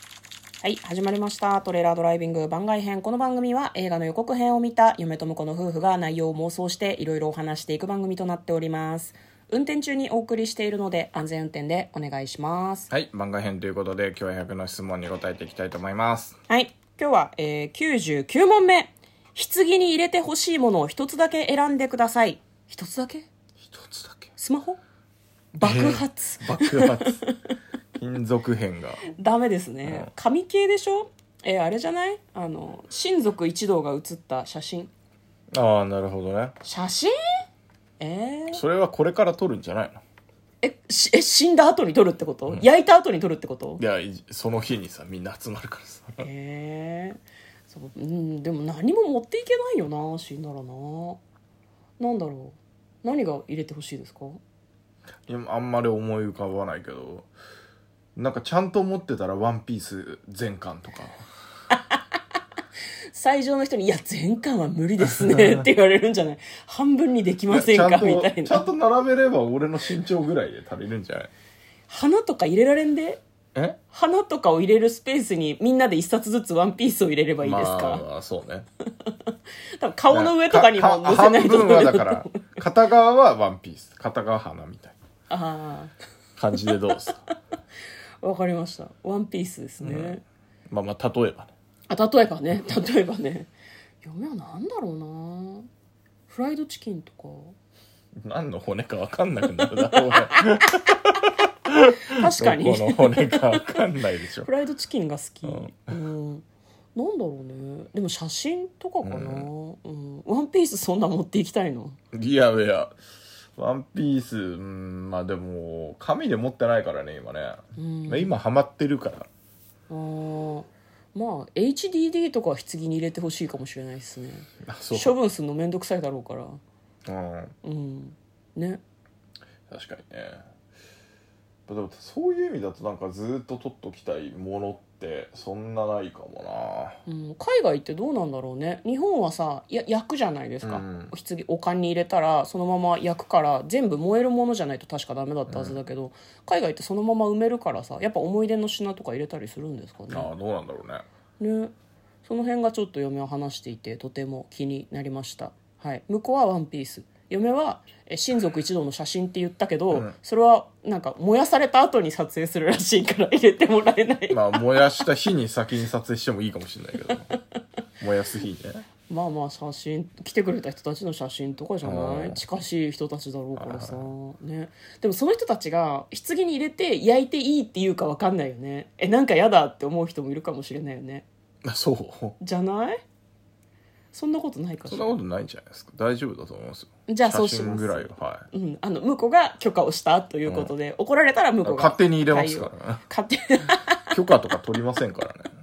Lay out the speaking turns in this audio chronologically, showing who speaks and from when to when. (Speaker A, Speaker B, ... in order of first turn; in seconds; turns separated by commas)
Speaker A: 0.6-12.9, Speaker B: 12.9-16.4, Speaker A: 16.5-23.3, Speaker B: 23.6-24.3, Speaker A: 24.4-24.8, Speaker A: 25.6-27.5, Speaker B: 25.6-27.2, Speaker B: 28.0-29.0, Speaker A: 29.1-34.9, Speaker B: 29.9-30.1, Speaker B: 35.5-36.6, Speaker A: 36.6-37.1, Speaker A: 38.0-38.6, Speaker B: 38.5-40.0, Speaker A: 40.6-43.8, Speaker B: 43.8-46.3, Speaker A: 46.2-51.2, Speaker A: 52.0-54.4, Speaker B: 55.3-57.3, Speaker B: 58.2-61.2, Speaker A: 61.7-62.2, Speaker A: 63.1-68.7, Speaker B: 65.1-65.7, Speaker B: 67.5-71.3, Speaker A: 71.9-73.2, Speaker A: 73.9-78.0, Speaker B: 77.4-78.7, Speaker A: 79.0-82.6, Speaker B: 80.1-85.0, Speaker A: 85.3-85.9, Speaker B: 86.4-87.2, Speaker A: 86.6-87.3, Speaker A: 88.2-90.2, Speaker B: 89.8-90.2, Speaker B: 90.7-91.5, Speaker A: 91.9-93.5, Speaker A: 94.0-95.7, Speaker A: 96.3-97.6, Speaker B: 98.2-104.5, Speaker A: 99.6-100.8, Speaker A: 102.0-103.8, Speaker A: 104.4-112.0, Speaker B: 109.0-109.5, Speaker B: 112.1-113.0, Speaker B: 113.6-119.3, Speaker A: 117.8-118.3, Speaker A: 119.9-126.6, Speaker B: 124.6-125.2, Speaker B: 127.1-127.5, Speaker A: 127.6-128.8, Speaker B: 129.7-130.4, Speaker B: 131.7-137.0, Speaker A: 137.1-150.3, Speaker B: 140.6-141.1, Speaker B: 145.5-145.8, Speaker B: 150.1-151.1, Speaker A: 151.4-151.7, Speaker A: 152.2-165.0, Speaker B: 164.3-167.3, Speaker B: 168.0-168.8, Speaker A: 169.1-181.3, Speaker B: 171.8-172.4, Speaker B: 173.6-174.1, Speaker B: 181.7-182.4, Speaker A: 182.4-183.0, Speaker A: 184.1-185.2, Speaker B: 184.9-188.5, Speaker A: 187.1-194.1, Speaker B: 190.5-190.7, Speaker B: 191.6-193.0, Speaker B: 194.1-195.5